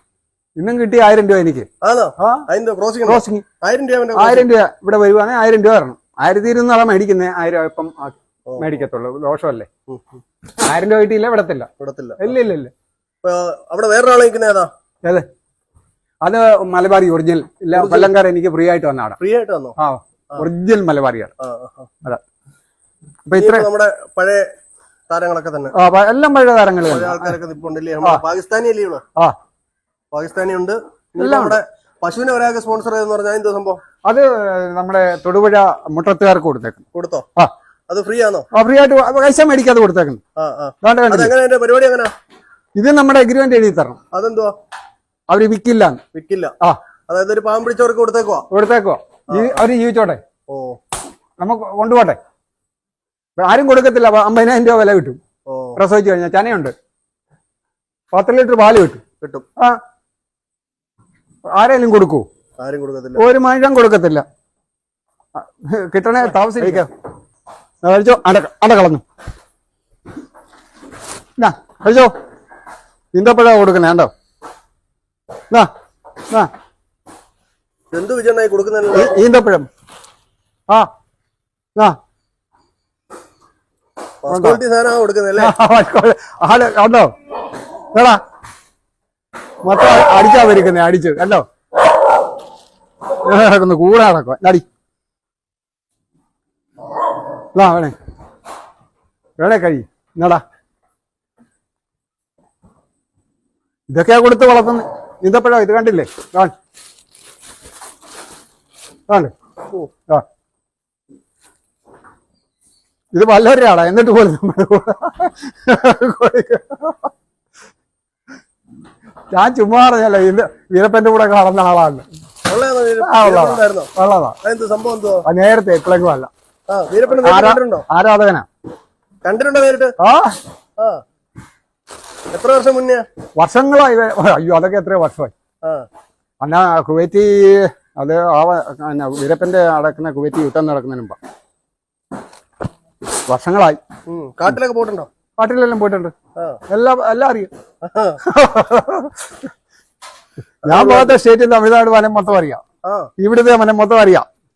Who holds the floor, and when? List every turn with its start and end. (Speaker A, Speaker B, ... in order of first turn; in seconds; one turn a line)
Speaker A: 0.6-1.7
Speaker B: 1.8-4.5
Speaker A: 2.2-2.5
Speaker A: 3.0-3.5
Speaker A: 4.2-9.7
Speaker B: 8.5-8.8
Speaker B: 9.9-10.2
Speaker A: 10.6-12.7
Speaker B: 11.8-12.3
Speaker B: 13.2-14.7
Speaker A: 16.2-19.2
Speaker B: 17.7-18.1
Speaker B: 19.2-19.8
Speaker A: 19.8-21.3
Speaker B: 21.4-21.9
Speaker A: 23.3-23.7
Speaker B: 23.3-24.5
Speaker B: 25.1-25.7
Speaker A: 25.7-27.4
Speaker B: 26.9-29.0
Speaker B: 30.1-33.8
Speaker A: 31.2-31.6
Speaker A: 34.1-36.9
Speaker B: 36.9-37.3
Speaker B: 37.9-38.5
Speaker A: 38.5-40.2
Speaker B: 40.4-42.1
Speaker A: 40.8-41.3
Speaker A: 42.8-44.0
Speaker B: 44.1-44.5
Speaker A: 45.3-46.0
Speaker B: 46.1-46.5
Speaker B: 47.1-48.5
Speaker A: 48.5-50.2
Speaker B: 49.3-49.6
Speaker B: 50.5-50.8
Speaker A: 51.4-52.2
Speaker A: 53.4-55.2
Speaker B: 55.5-55.8
Speaker A: 55.8-56.7
Speaker A: 58.1-59.0
Speaker A: 61.5-62.3
Speaker B: 62.6-63.2
Speaker A: 63.2-64.2
Speaker A: 65.3-66.9
Speaker B: 66.4-66.8
Speaker A: 67.8-69.0
Speaker A: 71.4-72.1
Speaker A: 73.1-74.1
Speaker B: 77.9-79.2
Speaker A: 78.9-79.7
Speaker B: 84.2-85.5
Speaker A: 84.3-84.6
Speaker A: 85.4-87.1
Speaker A: 87.9-88.2
Speaker A: 89.6-91.5
Speaker A: 93.2-94.7
Speaker A: 97.5-98.0
Speaker A: 99.4-100.4
Speaker A: 103.9-106.5
Speaker A: 109.1-109.3
Speaker A: 113.1-117.1
Speaker A: 119.3-122.0
Speaker B: 122.5-123.9
Speaker A: 123.0-124.4
Speaker B: 124.4-125.2
Speaker A: 125.3-126.3
Speaker B: 126.7-127.9
Speaker A: 127.2-128.5
Speaker B: 129.2-129.9
Speaker A: 130.0-130.4
Speaker B: 132.3-133.0
Speaker A: 133.4-135.3
Speaker A: 136.4-141.2
Speaker A: 143.3-143.8
Speaker B: 144.1-145.1
Speaker A: 145.4-146.1
Speaker A: 146.7-147.5
Speaker B: 147.8-148.2
Speaker A: 148.2-149.2
Speaker B: 150.7-151.2
Speaker A: 150.7-152.6
Speaker B: 152.8-153.1
Speaker A: 153.2-154.2